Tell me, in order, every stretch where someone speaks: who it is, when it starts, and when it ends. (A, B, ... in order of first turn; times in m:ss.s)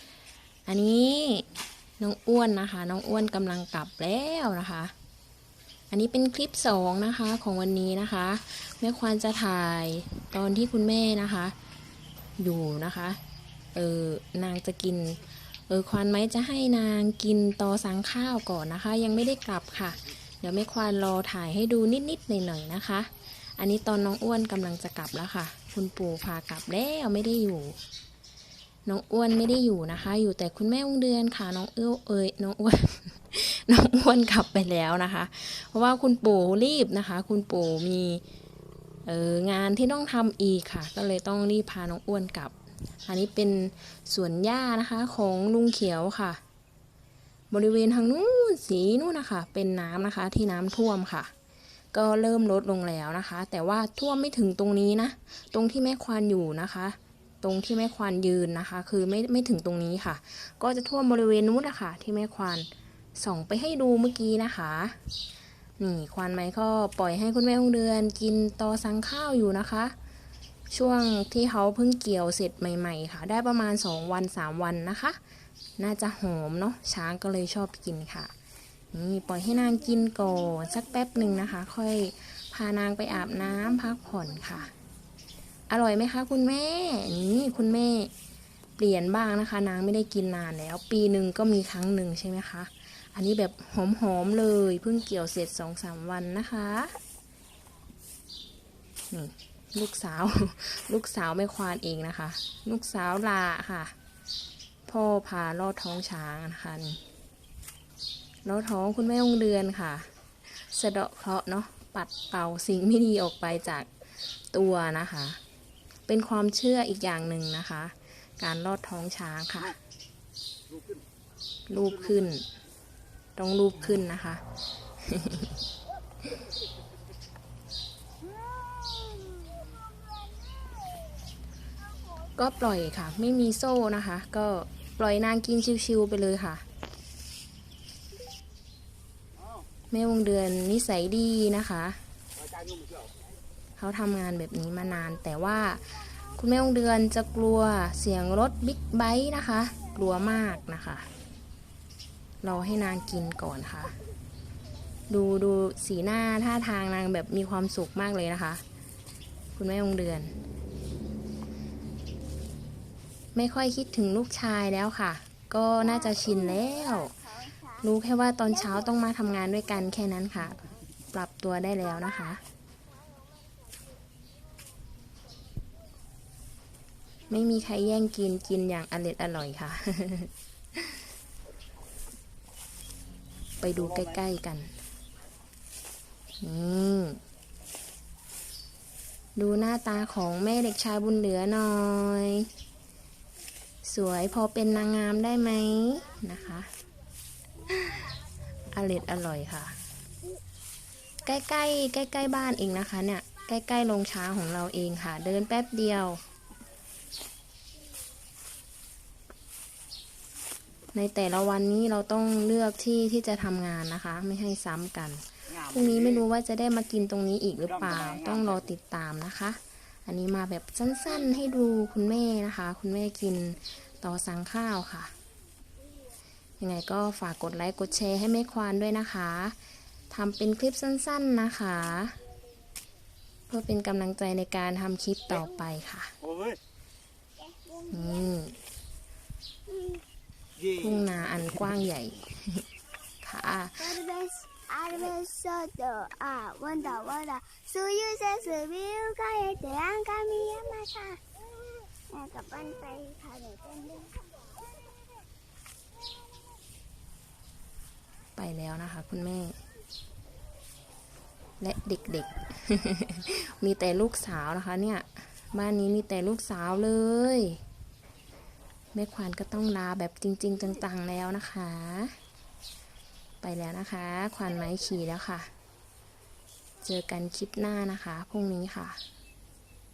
0:00.7-0:01.5 A
0:02.0-0:04.9 A
0:05.9-0:11.5 A
0:12.4-0:13.2 A
0:13.7-0:27.8 A
0:28.8-0:38.2 A
0:39.0-0:46.4 A
0:47.5-0:51.3 A
0:51.9-1:05.0 A
1:05.8-1:09.9 A
1:10.7-1:15.2 A
1:15.8-1:18.3 A
1:18.9-1:24.7 A
1:25.7-1:28.1 A
1:28.8-1:37.0 A
1:39.1-1:43.9 A
1:44.9-1:47.0 A
1:48.4-1:53.9 A
1:54.5-1:55.4 A
1:56.1-1:59.8 A
2:01.7-2:02.5 A
2:03.4-2:04.4 A
2:05.0-2:05.6 A
2:09.1-2:09.7 B
2:12.3-2:16.6 A
2:19.9-2:22.0 A
2:23.8-2:31.1 A
2:32.4-2:33.9 A
2:35.1-2:38.6 A
2:39.6-2:40.3 A
2:43.3-2:47.2 A
2:46.1-2:47.7 B
2:47.8-2:52.4 A
2:57.3-3:00.9 A
3:03.6-3:04.7 A
3:06.4-3:07.2 A
3:09.4-3:12.5 A
3:13.8-3:16.7 A
3:17.7-3:18.1 A
3:18.7-3:19.8 A
3:21.2-3:26.2 A
3:30.9-3:45.1 A
3:46.6-3:49.6 A
3:50.1-3:52.2 A
3:53.5-3:56.1 A
3:57.4-3:58.1 B
3:57.9-3:58.6 A
3:59.7-4:00.0 B
4:00.7-4:02.6 A
4:03.2-4:03.9 A
4:03.8-4:11.2 B
4:12.1-4:14.2 B
4:18.4-4:19.6 A
4:21.6-4:27.6 A
4:28.9-4:32.2 A
4:33.4-4:35.5 A
4:36.8-4:39.0 A